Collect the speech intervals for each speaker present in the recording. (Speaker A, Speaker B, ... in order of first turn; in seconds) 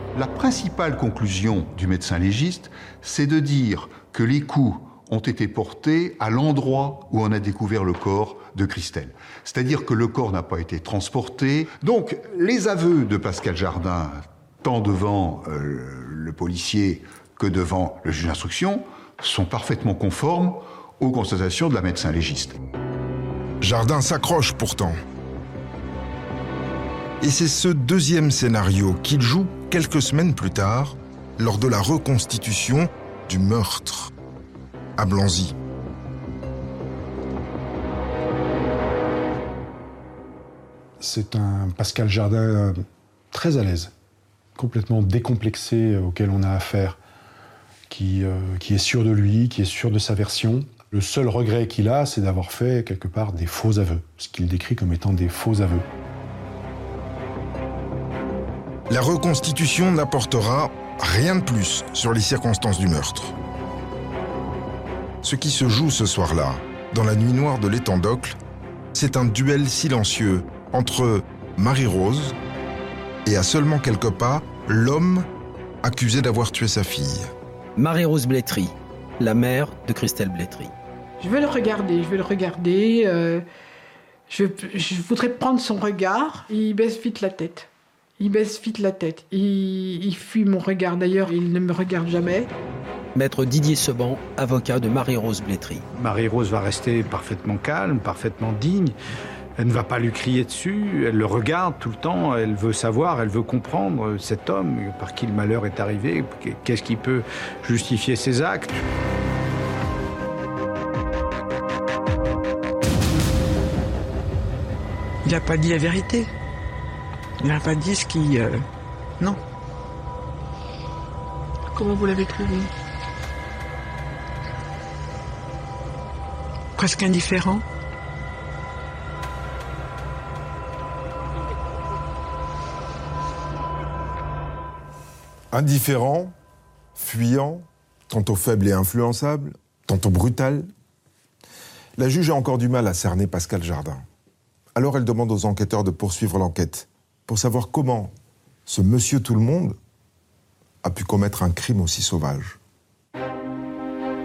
Speaker A: 0.1-22.6
Speaker B: 23.6-25.0, 27.2-34.1, 35.0-35.5, 58.9-63.4, 65.2-68.4, 68.9-72.4, 73.2-75.3, 75.8-77.3, 135.5-136.3, 136.9-140.7, 142.0-144.0, 144.8-148.1, 148.7-149.8, 150.8-152.6
Speaker C: 41.0-43.9, 44.6-47.0, 47.9-55.9
Speaker D: 77.8-80.7, 93.2-95.8
Speaker E: 81.2-83.4, 84.3-92.5
Speaker F: 96.0-99.0, 99.6-108.8
Speaker G: 115.2-116.3, 117.4-118.7, 121.7-122.7, 126.8-127.6